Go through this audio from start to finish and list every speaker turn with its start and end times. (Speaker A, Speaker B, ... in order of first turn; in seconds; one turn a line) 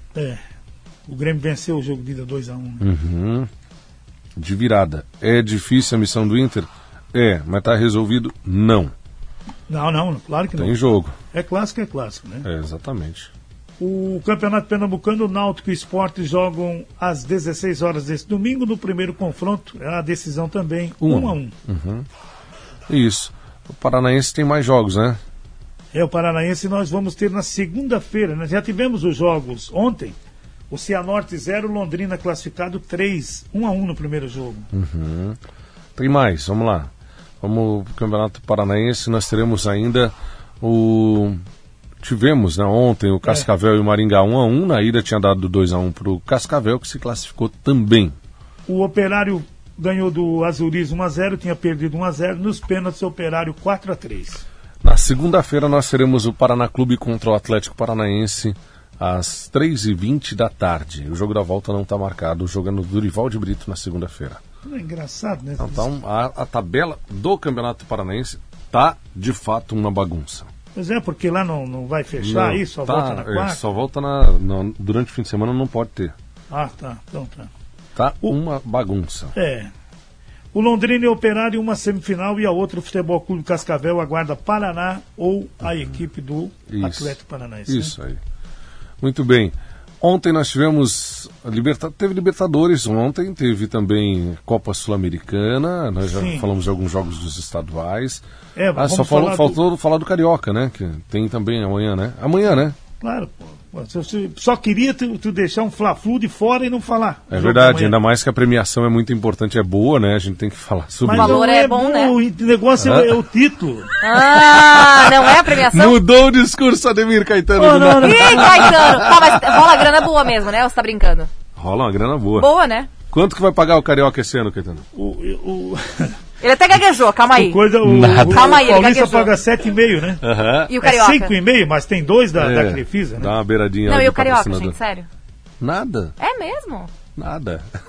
Speaker A: 0.1-0.4
Speaker A: 1.1-2.9
Speaker B: 2.8-3.5
Speaker B: 4.4-8.9
Speaker A: 9.7-10.8
Speaker B: 10.6-11.2
Speaker A: 11.3-12.5
Speaker B: 12.4-13.3
Speaker A: 13.8-21.5
Speaker B: 21.0-22.1
Speaker B: 22.9-25.2
Speaker A: 25.9-30.2
Speaker A: 30.7-34.7
Speaker B: 34.7-35.4
Speaker B: 36.0-41.4
Speaker B: 42.0-48.2
Speaker A: 48.7-54.4
Speaker B: 54.8-64.4
Speaker A: 64.7-65.9
Speaker B: 65.6-70.5
Speaker A: 70.8-73.6
Speaker B: 72.2-76.2
Speaker A: 76.5-77.5
Speaker B: 78.0-79.3
Speaker A: 79.3-79.7
Speaker A: 80.5-87.9
Speaker B: 86.7-88.2
Speaker B: 89.0-98.2
Speaker A: 96.1-96.5
Speaker A: 98.6-99.6
Speaker B: 98.8-102.8
Speaker A: 103.0-108.0
Speaker B: 107.3-111.5
Speaker A: 111.0-113.9
Speaker C: 111.1-112.1
Speaker B: 112.8-113.2
Speaker C: 114.0-116.0
Speaker B: 114.2-120.1
Speaker A: 117.6-118.7
Speaker C: 118.0-121.3
Speaker B: 121.6-122.5
Speaker C: 122.4-122.9
Speaker B: 123.1-124.9
Speaker A: 124.9-126.2
Speaker C: 126.4-129.3
Speaker A: 127.3-130.2
Speaker B: 127.8-128.6
Speaker B: 130.2-130.7
Speaker C: 130.7-131.3
Speaker A: 130.8-133.3
Speaker B: 132.3-134.8
Speaker C: 133.9-135.1
Speaker B: 135.6-136.2
Speaker C: 136.2-136.9
Speaker B: 137.2-137.7